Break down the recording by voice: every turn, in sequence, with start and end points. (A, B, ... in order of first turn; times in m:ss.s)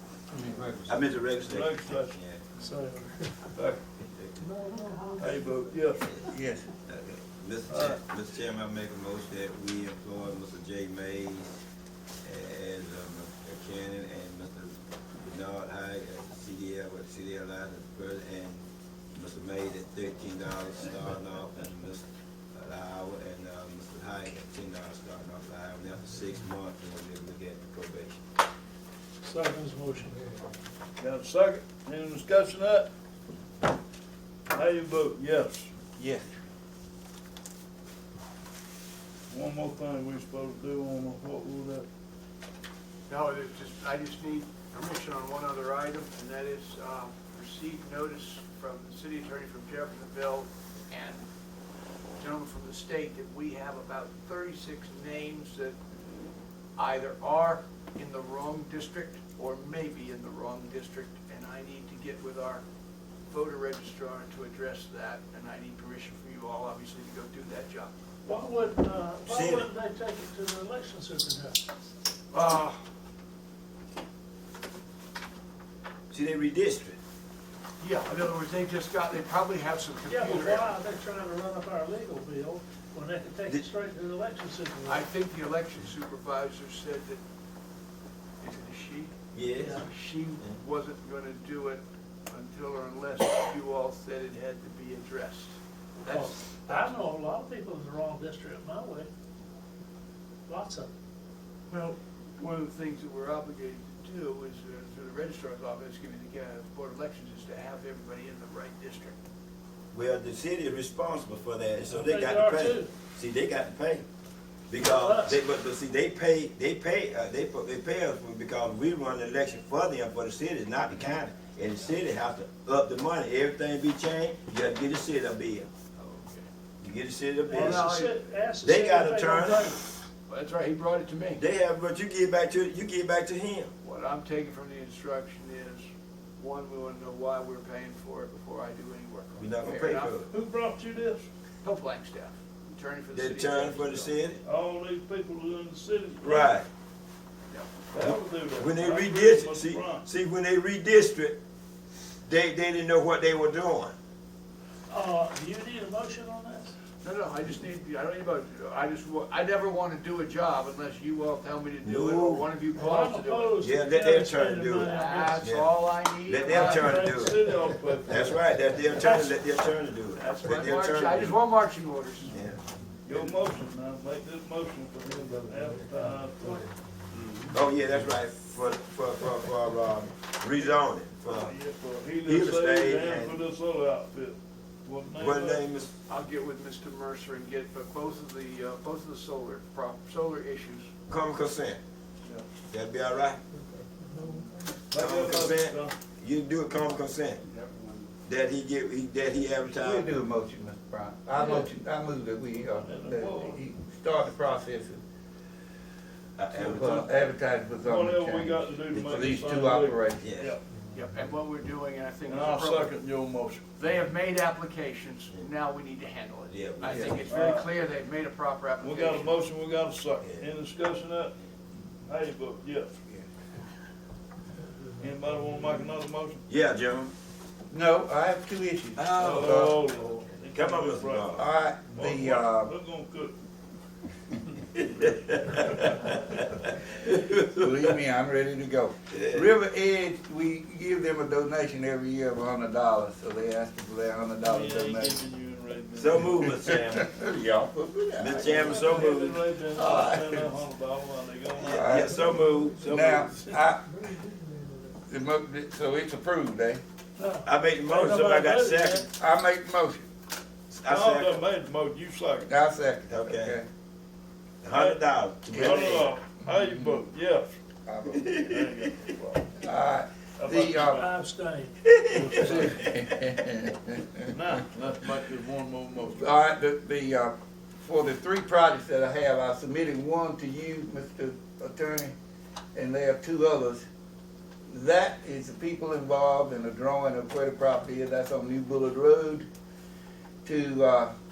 0:00.3-0:01.0 A
0:00.8-0:02.4 B
0:01.4-0:02.2 C
0:02.6-0:03.4 D
0:03.5-0:03.8 C
0:04.0-0:04.6 B
0:04.6-0:05.2 D
0:05.2-0:06.1 C
0:06.2-0:06.7 A
0:06.8-0:11.6 B
0:07.7-0:08.0 C
0:12.2-0:28.2 B
0:29.2-0:30.3 D
0:31.0-0:32.9 C
0:34.5-0:35.7 C
0:36.0-0:36.3 A
0:39.3-0:41.9 C
0:43.1-0:51.3 E
0:52.2-0:55.8 E
0:56.8-1:02.6 E
1:03.3-1:07.9 E
1:08.2-1:11.6 D
1:09.2-1:09.7 B
1:12.3-1:12.8 E
1:16.1-1:17.0 B
1:17.8-1:20.8 E
1:20.1-1:25.0 D
1:24.9-1:27.2 E
1:28.4-1:37.0 E
1:29.3-1:29.8 B
1:29.6-1:29.8 D
1:36.1-1:39.1 D
1:40.5-1:40.9 D
1:41.7-1:49.2 E
1:49.9-1:54.1 B
1:51.9-1:52.9 D
1:54.7-2:05.7 B
1:54.7-1:55.4 D
2:06.0-2:06.5 E
2:06.8-2:07.9 B
2:07.5-2:08.2 E
2:07.5-2:09.9 D
2:08.6-2:09.7 B
2:10.3-2:11.4 E
2:11.4-2:13.7 B
2:13.8-2:15.8 E
2:16.4-2:20.2 E
2:19.4-2:20.3 B
2:20.3-2:21.3 C
2:21.6-2:24.1 E
2:23.1-2:24.4 B
2:24.4-2:26.6 C
2:26.2-2:26.7 B
2:27.9-2:30.1 C
2:28.0-2:31.4 B
2:32.3-2:34.0 B
2:34.9-2:36.7 D
2:37.0-2:43.7 E
2:41.8-2:42.5 B
2:42.7-2:45.5 D
2:43.6-2:45.7 B
2:44.7-2:47.2 E
2:46.3-2:47.4 B
2:46.5-2:48.4 C
2:48.0-2:51.4 B
2:49.0-2:49.4 E
2:50.2-2:52.4 E
2:52.3-2:52.6 B
2:53.0-2:56.6 C
2:57.5-3:01.5 B
3:01.3-3:05.8 C
3:02.2-3:03.4 B
3:05.2-3:05.9 B
3:06.1-3:10.9 E
3:11.1-3:11.8 B
3:12.7-3:13.4 B
3:14.9-3:16.0 C
3:14.9-3:17.4 B
3:18.2-3:20.1 B
3:19.8-3:25.0 A
3:21.4-3:21.7 C
3:22.7-3:23.6 C
3:26.4-3:27.1 B
3:26.5-3:30.3 A
3:27.8-3:30.6 C
3:30.2-3:30.5 B
3:30.9-3:33.0 E
3:32.2-3:33.7 C
3:33.8-3:39.4 E
3:36.5-3:37.2 B
3:36.9-3:37.2 A
3:37.3-3:37.7 C
3:38.8-3:41.4 C
3:42.1-3:43.0 C
3:45.0-3:46.4 C
3:46.5-3:47.1 B
3:47.7-3:49.8 A
3:49.0-3:49.7 B
3:49.2-3:53.4 C
3:50.5-3:51.4 B
3:51.4-3:52.7 A
3:55.0-3:56.2 C
3:55.0-3:57.7 B
3:57.3-4:05.2 A
3:59.1-3:59.5 B
4:04.4-4:06.5 C
4:06.0-4:07.1 B
4:07.0-4:09.1 A
4:08.2-4:09.4 B
4:08.3-4:13.5 C
4:09.7-4:10.5 A
4:11.6-4:13.3 B
4:11.7-4:12.2 A
4:12.8-4:13.9 A
4:15.1-4:16.8 A
4:17.2-4:17.5 D
4:17.4-4:19.1 B
4:18.1-4:19.1 D
4:19.1-4:20.1 A
4:20.7-4:21.4 B
4:20.9-4:22.5 C
4:22.5-4:23.7 A
4:23.1-4:23.6 B
4:24.6-4:26.1 B
4:24.7-4:27.6 C
4:25.5-4:27.0 A
4:27.9-4:28.6 A
4:28.1-4:28.9 B
4:28.4-4:29.6 C
4:29.6-4:31.0 A
4:30.4-4:31.1 C
4:31.0-4:32.7 D
4:31.9-4:32.7 B
4:32.1-4:32.8 C
4:32.3-4:34.3 A
4:34.3-4:36.4 C
4:36.2-4:42.2 A
4:42.8-4:43.8 A
4:44.7-4:49.5 A
4:50.4-4:51.1 A